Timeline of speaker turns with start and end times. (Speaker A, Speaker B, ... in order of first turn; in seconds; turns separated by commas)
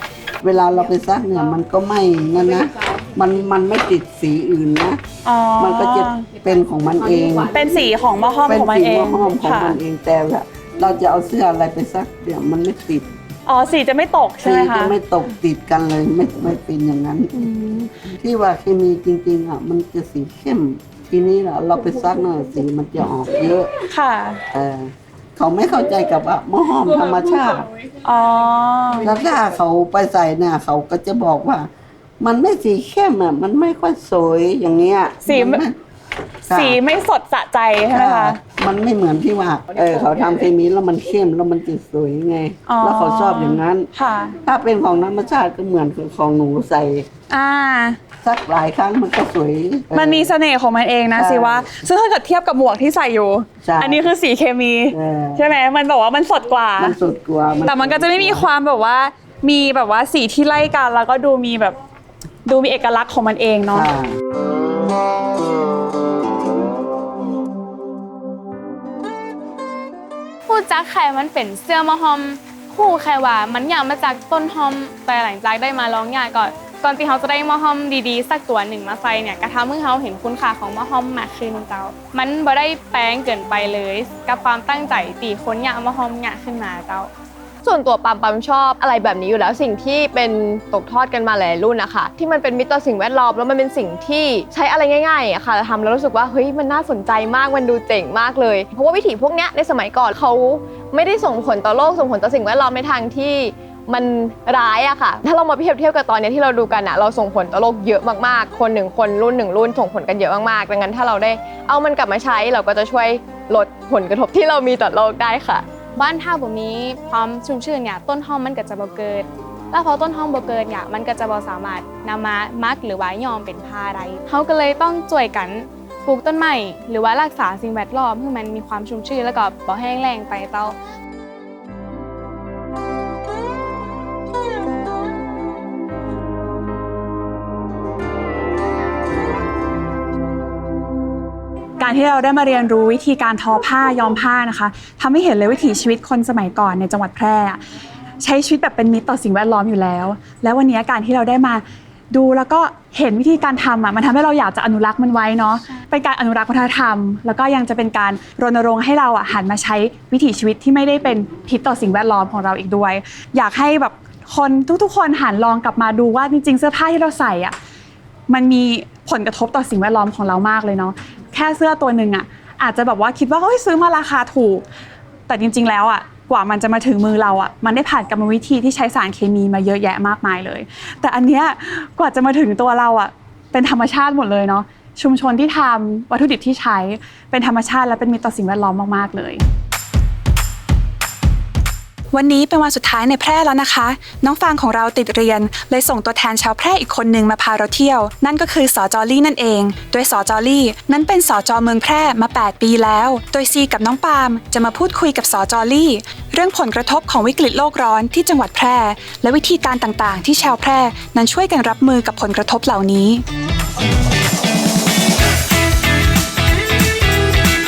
Speaker A: 0.4-5.0, Speaker B: 5.2-6.3, Speaker A: 5.6-7.7, Speaker B: 7.5-9.8, Speaker A: 8.4-13.1, Speaker B: 13.5-14.9, Speaker A: 14.4-17.4, Speaker B: 17.3-17.9, Speaker A: 18.1-23.7, Speaker B: 23.8-24.4, Speaker A: 24.5-27.7, Speaker B: 28.0-29.1, Speaker A: 29.0-31.7, Speaker A: 32.2-35.8, Speaker B: 35.2-35.6, Speaker A: 36.5-36.8, Speaker B: 36.5-38.4, Speaker A: 37.9-43.9, Speaker B: 42.7-44.4, Speaker A: 44.5-47.1, Speaker B: 47.3-48.0, Speaker A: 48.2-50.3, Speaker B: 49.9-57.0, Speaker A: 51.1-51.7, Speaker A: 53.6-54.1, Speaker A: 54.9-55.4, Speaker A: 56.8-58.5, Speaker B: 57.6-61.8, Speaker B: 62.5-63.9, Speaker A: 63.7-64.2, Speaker C: 70.5-87.1, Speaker D: 87.6-115.7, Speaker C: 116.0-130.8, Speaker B: 141.8-147.6, Speaker B: 148.2-167.6, Speaker B: 168.3-174.7, Speaker B: 175.3-189.4, Speaker E: 192.1-213.2